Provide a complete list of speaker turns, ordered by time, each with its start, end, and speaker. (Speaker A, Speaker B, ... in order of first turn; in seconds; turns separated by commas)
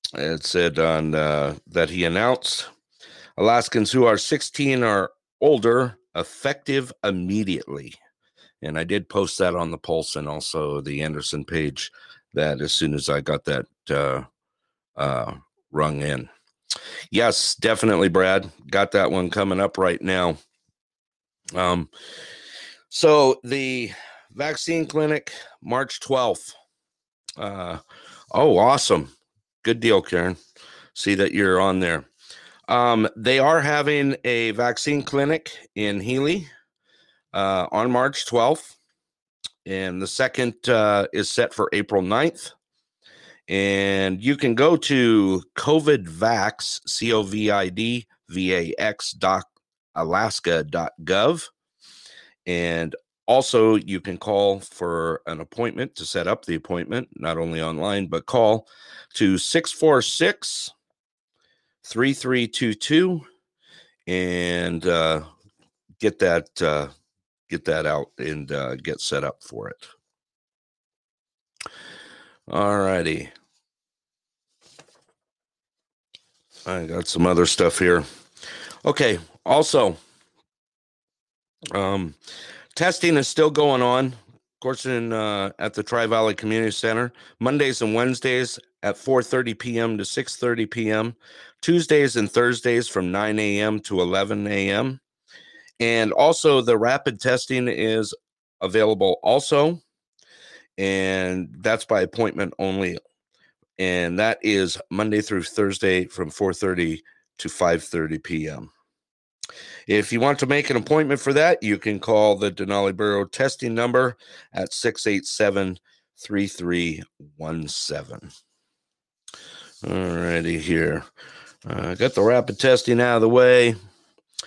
Speaker A: 0.1-2.7, Speaker A: 3.4-7.9, Speaker A: 8.6-14.2, Speaker A: 15.0-16.3, Speaker A: 17.1-20.4, Speaker A: 21.5-21.9, Speaker A: 22.9-26.5, Speaker A: 27.4-27.8, Speaker A: 28.3-29.1, Speaker A: 29.6-30.4, Speaker A: 30.9-32.1, Speaker A: 32.7-36.5, Speaker A: 37.3-38.7, Speaker A: 39.6-42.5, Speaker A: 43.5-51.5, Speaker A: 52.4-60.7, Speaker A: 61.8-63.2, Speaker A: 64.1-65.2, Speaker A: 66.0-66.9, Speaker A: 67.5-69.8, Speaker A: 72.5-73.3, Speaker A: 76.7-78.0, Speaker A: 78.8-80.0, Speaker A: 81.7-82.2, Speaker A: 82.7-95.0, Speaker A: 95.8-99.8, Speaker A: 100.8-103.0, Speaker A: 103.8-108.7, Speaker A: 109.9-118.3, Speaker A: 119.8-121.0, Speaker A: 121.7-123.8